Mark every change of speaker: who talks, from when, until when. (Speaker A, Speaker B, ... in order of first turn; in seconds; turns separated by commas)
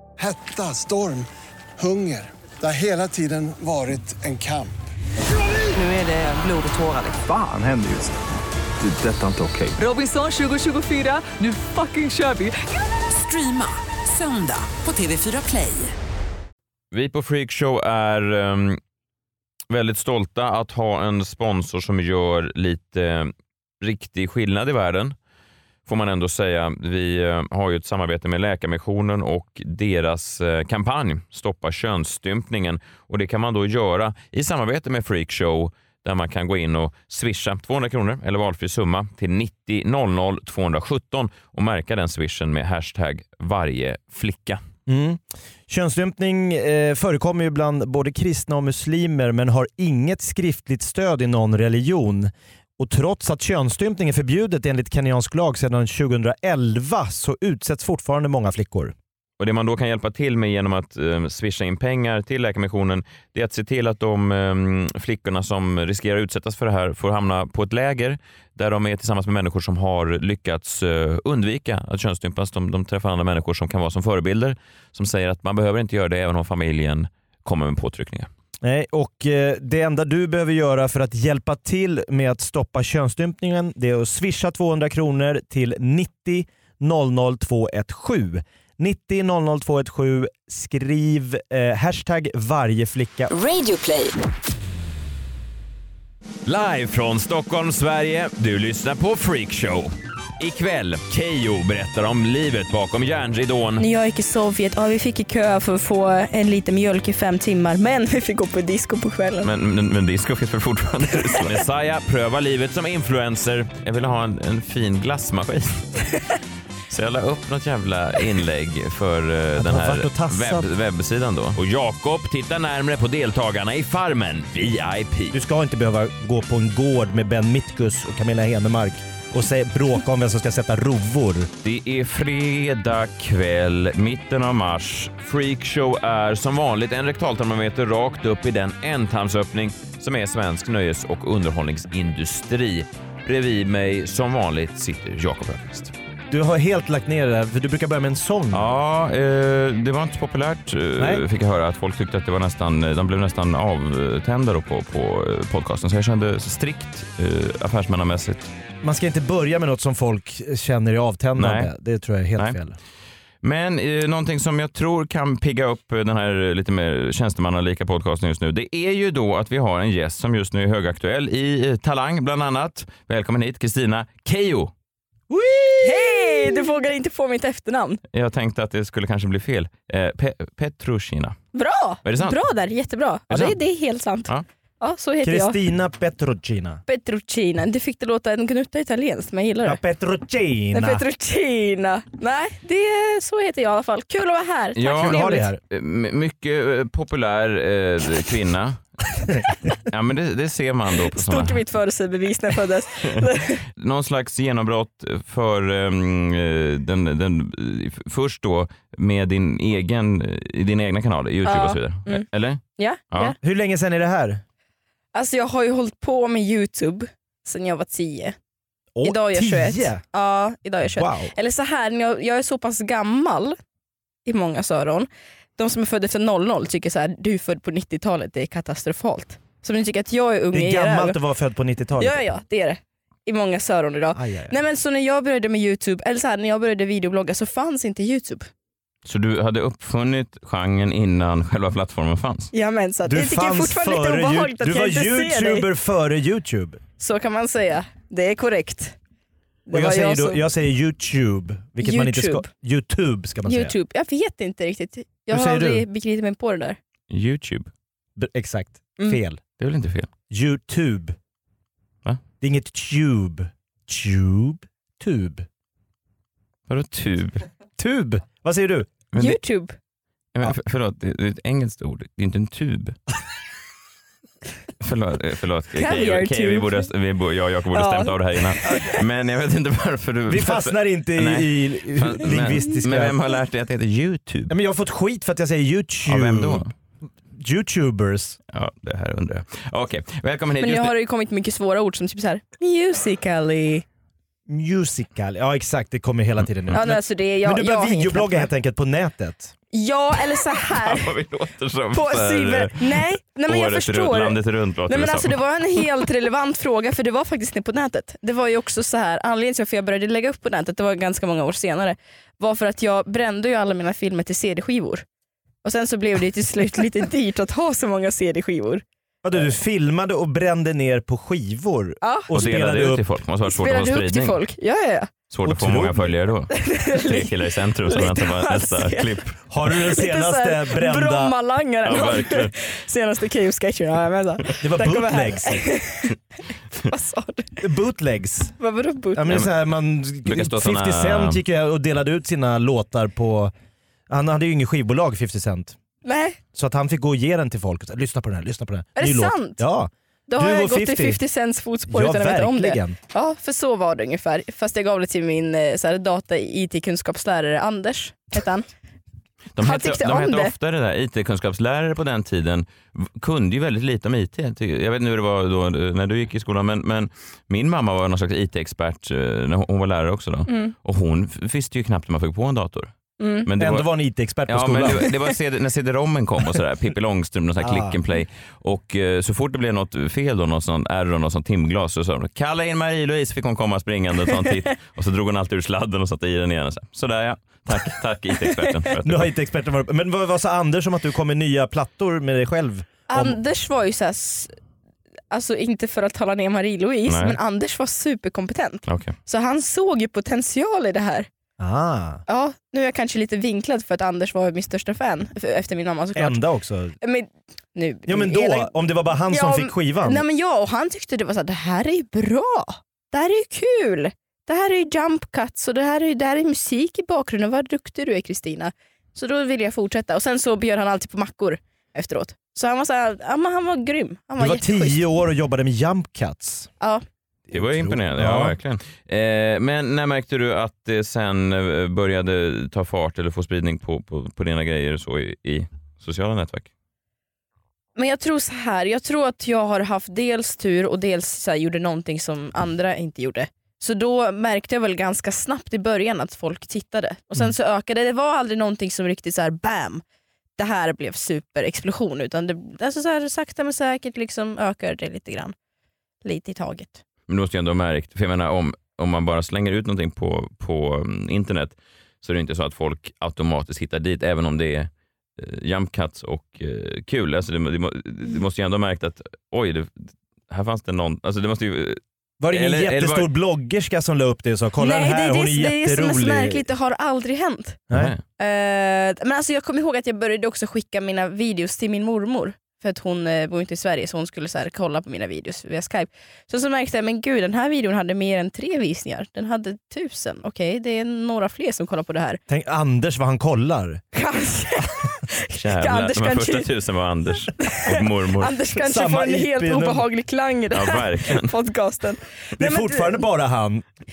Speaker A: 0.2-4.7, Speaker B: 5.7-7.2, Speaker C: 7.2-8.2, Speaker C: 8.8-9.8, Speaker B: 9.8-15.9, Speaker D: 16.9-18.8, Speaker D: 19.7-25.1, Speaker D: 25.9-44.6, Speaker E: 44.9-58.9, Speaker D: 59.4-78.3, Speaker E: 78.6-93.3, Speaker B: 93.3-94.2, Speaker D: 96.5-103.8, Speaker F: 103.8-109.5, Speaker D: 109.4-115.8, Speaker D: 116.9-125.4, Speaker E: 119.6-120.7, Speaker E: 125.3-131.5, Speaker D: 131.6-145.9, Speaker E: 146.3-148.7, Speaker D: 148.5-158.5, Speaker E: 151.0-151.2, Speaker E: 158.8-162.8, Speaker D: 161.4-161.7, Speaker D: 163.4-174.7, Speaker E: 175.3-176.6, Speaker F: 175.8-178.0, Speaker D: 178.1-181.4, Speaker F: 181.5-184.3, Speaker D: 182.1-182.4, Speaker D: 183.3-183.6, Speaker F: 184.8-185.6, Speaker E: 185.2-186.8, Speaker F: 186.9-189.8, Speaker E: 189.6-191.0, Speaker F: 190.7-195.5, Speaker D: 194.8-198.8, Speaker E: 194.9-195.6, Speaker D: 199.7-201.6, Speaker F: 201.1-203.6, Speaker D: 203.7-213.3, Speaker F: 211.4-213.4, Speaker E: 213.4-214.4, Speaker F: 215.1-218.3, Speaker E: 218.9-220.0, Speaker F: 219.0-223.6, Speaker E: 220.8-221.3, Speaker F: 224.3-231.2, Speaker E: 230.5-232.2, Speaker F: 232.0-238.5, Speaker E: 234.2-234.6, Speaker D: 239.1-242.5, Speaker F: 242.5-245.7, Speaker E: 243.1-246.8, Speaker F: 247.0-249.0, Speaker F: 249.7-250.4, Speaker E: 249.7-253.8, Speaker F: 251.8-252.5, Speaker F: 253.4-256.8, Speaker E: 255.3-255.8, Speaker D: 257.1-257.7, Speaker E: 258.2-259.4, Speaker D: 259.6-260.1, Speaker E: 260.3-261.2, Speaker E: 262.4-265.5, Speaker D: 266.7-267.5, Speaker E: 267.8-268.9, Speaker D: 269.1-269.4, Speaker F: 269.2-269.8, Speaker D: 270.4-273.0, Speaker D: 274.8-284.5, Speaker F: 275.7-276.8, Speaker F: 277.7-278.8, Speaker E: 280.3-283.2, Speaker E: 284.5-286.7, Speaker D: 286.1-286.7, Speaker E: 287.3-288.4, Speaker D: 288.5-290.9, Speaker F: 290.6-293.9, Speaker E: 294.5-299.5, Speaker D: 296.4-296.8, Speaker F: 296.7-298.5, Speaker F: 299.7-301.1, Speaker D: 300.7-305.8, Speaker F: 301.9-315.0, Speaker F: 315.6-318.8, Speaker E: 319.2-323.0, Speaker F: 322.0-322.3, Speaker D: 322.3-324.4, Speaker F: 323.5-325.1, Speaker D: 325.3-329.5, Speaker E: 325.4-326.1, Speaker F: 326.5-336.2, Speaker E: 329.5-331.3, Speaker D: 331.9-332.5, Speaker E: 334.6-335.7, Speaker F: 336.8-337.5, Speaker E: 337.6-338.6, Speaker F: 338.6-339.4, Speaker E: 339.1-343.5, Speaker D: 340.2-341.4, Speaker E: 344.1-345.8, Speaker F: 346.0-346.4, Speaker E: 346.5-351.2, Speaker F: 349.0-349.6, Speaker F: 350.3-358.7, Speaker E: 351.9-353.0, Speaker D: 359.5-372.9, Speaker F: 359.6-360.5, Speaker F: 370.5-370.7, Speaker F: 373.2-373.5, Speaker D: 373.4-373.9, Speaker E: 373.6-375.2, Speaker D: 374.5-389.3, Speaker E: 377.6-378.0, Speaker F: 388.4-388.7, Speaker E: 389.0-393.4, Speaker F: 393.1-394.6, Speaker F: 395.3-401.3, Speaker D: 397.1-397.4, Speaker D: 398.9-399.1, Speaker E: 401.6-402.2, Speaker F: 402.3-406.4, Speaker E: 406.2-407.0, Speaker F: 407.0-408.7, Speaker E: 408.1-410.2, Speaker F: 409.3-425.1, Speaker E: 424.4-426.7, Speaker E: 427.5-428.6, Speaker D: 427.5-436.7, Speaker F: 438.0-450.0, Speaker F: 450.6-455.6, Speaker F: 456.2-457.0, Speaker D: 457.3-472.0, Speaker E: 472.4-476.6, Speaker D: 472.5-473.3, Speaker F: 474.8-477.8, Speaker D: 477.9-478.2, Speaker F: 478.4-492.4, Speaker E: 492.5-494.0, Speaker F: 494.1-496.7, Speaker D: 495.6-498.6, Speaker F: 497.6-503.2, Speaker E: 498.8-500.1, Speaker D: 500.7-501.5, Speaker E: 502.6-503.8